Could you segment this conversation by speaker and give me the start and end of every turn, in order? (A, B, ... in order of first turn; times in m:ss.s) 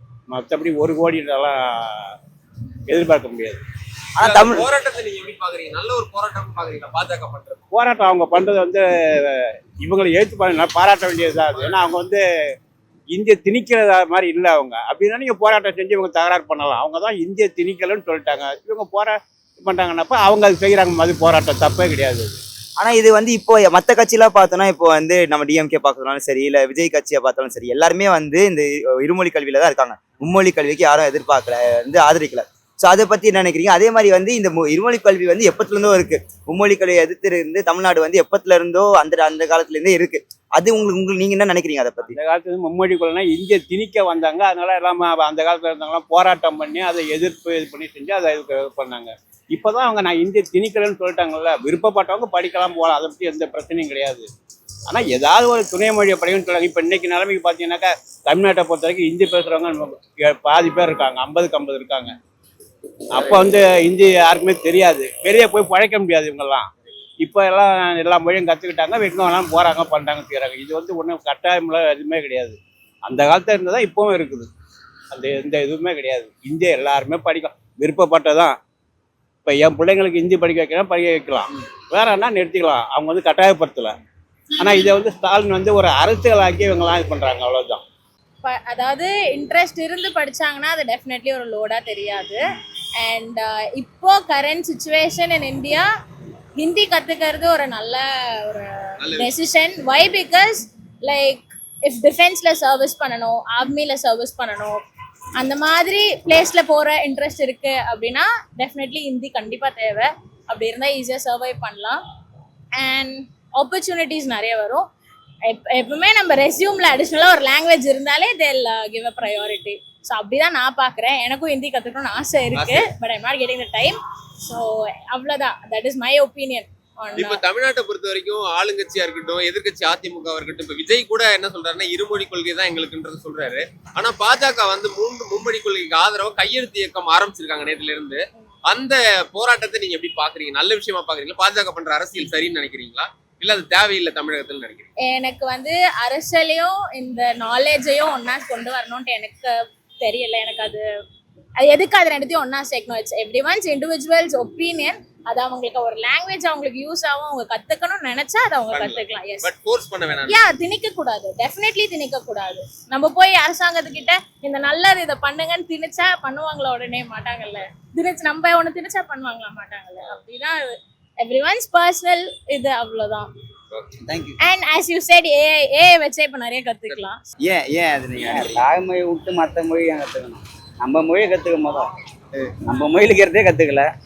0:00.3-0:02.1 A
0:02.9-0:03.6 A
0:04.2-0:04.7 B
0:04.2-0:07.6 C
0:07.7-0:12.2 A
0:13.1-0:22.4 A
0:22.8-0:42.2 B
0:42.1-0:54.3 A
0:54.9-1:02.1 A
1:03.1-1:06.7 A
1:07.2-1:14.5 A
1:15.1-1:18.6 A
1:19.4-1:24.0 A
1:24.6-1:27.8 A
1:28.4-1:32.4 D
1:33.0-1:35.8 D
1:36.6-1:44.8 D
1:39.0-1:39.3 C
1:45.4-1:52.0 D
1:52.8-1:54.8 D
1:55.5-2:07.4 D
2:02.5-2:02.8 C
2:07.2-2:24.9 C
2:25.0-2:30.8 D
2:31.6-2:39.5 D
2:38.7-2:40.4 C
2:40.3-2:50.6 D
2:51.2-2:53.3 D
2:54.0-2:54.4 B
2:54.4-2:57.2 D
2:57.4-2:58.6 B
2:58.2-3:01.9 E
3:02.7-3:03.9 E